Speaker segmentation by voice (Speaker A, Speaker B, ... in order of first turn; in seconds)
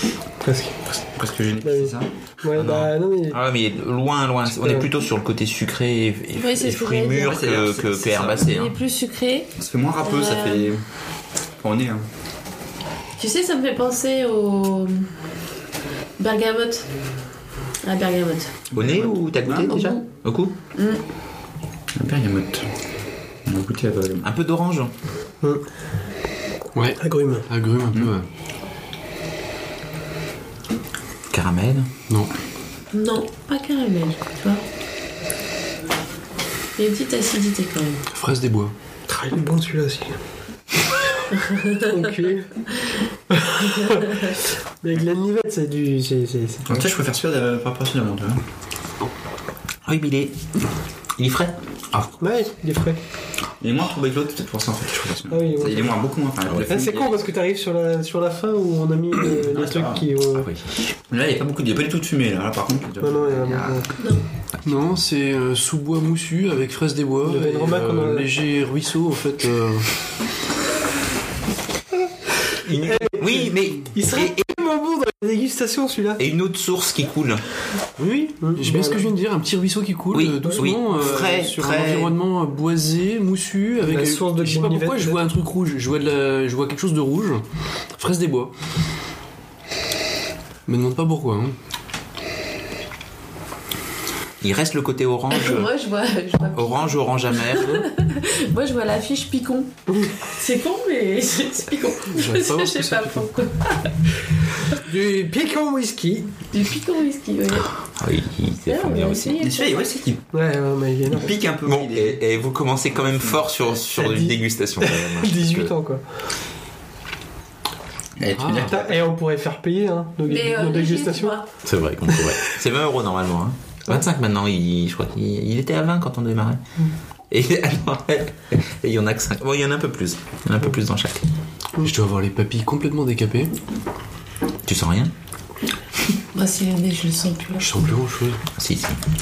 Speaker A: 0.4-0.8, 1.6-3.4, 4.5-4.9, 27.0-27.5, 39.1-40.2, 41.8-42.6, 43.3-46.9, 52.2-53.0, 55.3-60.5, 63.0-63.9, 67.2-68.3, 72.7-76.2, 78.4-79.0, 80.4-80.9, 83.8-85.2, 104.8-106.3, 110.3-111.3, 113.9-116.0, 118.7-121.4, 122.1-122.4
Speaker B: 0.9-2.1, 7.2-8.5, 9.6-10.8, 11.6-12.1, 18.7-19.8, 21.9-22.7, 23.4-24.2, 46.7-48.4, 53.6-57.1, 59.5-60.0, 61.1-63.9, 109.4-110.2, 111.1-112.2, 118.2-118.9
Speaker C: 2.5-8.7, 18.8-20.5, 24.2-24.9, 31.3-31.9, 49.8-50.4, 51.2-52.1, 56.5-56.8, 60.3-60.6, 72.6-74.4, 76.2-77.4, 80.1-82.1, 94.4-95.7, 96.5-97.8, 108.0-109.4, 111.6-115.7, 121.6-126.6, 127.3-131.2, 134.6-135.1, 138.6-139.0
Speaker D: 6.3-7.4, 8.4-9.5, 10.0-10.7, 13.2-15.1, 16.2-16.9, 17.8-18.5, 19.7-20.1, 20.7-21.0, 32.9-34.6, 36.8-38.0, 41.3-41.9, 43.7-44.4, 95.3-103.9, 106.5-107.7, 108.7-109.9, 120.2-121.5, 136.3-137.7
Speaker E: 26.7-28.2, 38.1-38.7, 64.6-69.9, 78.0-87.4, 88.0-88.5, 90.7-91.5, 102.1-103.2, 118.3-118.8, 131.8-133.5, 137.6-138.4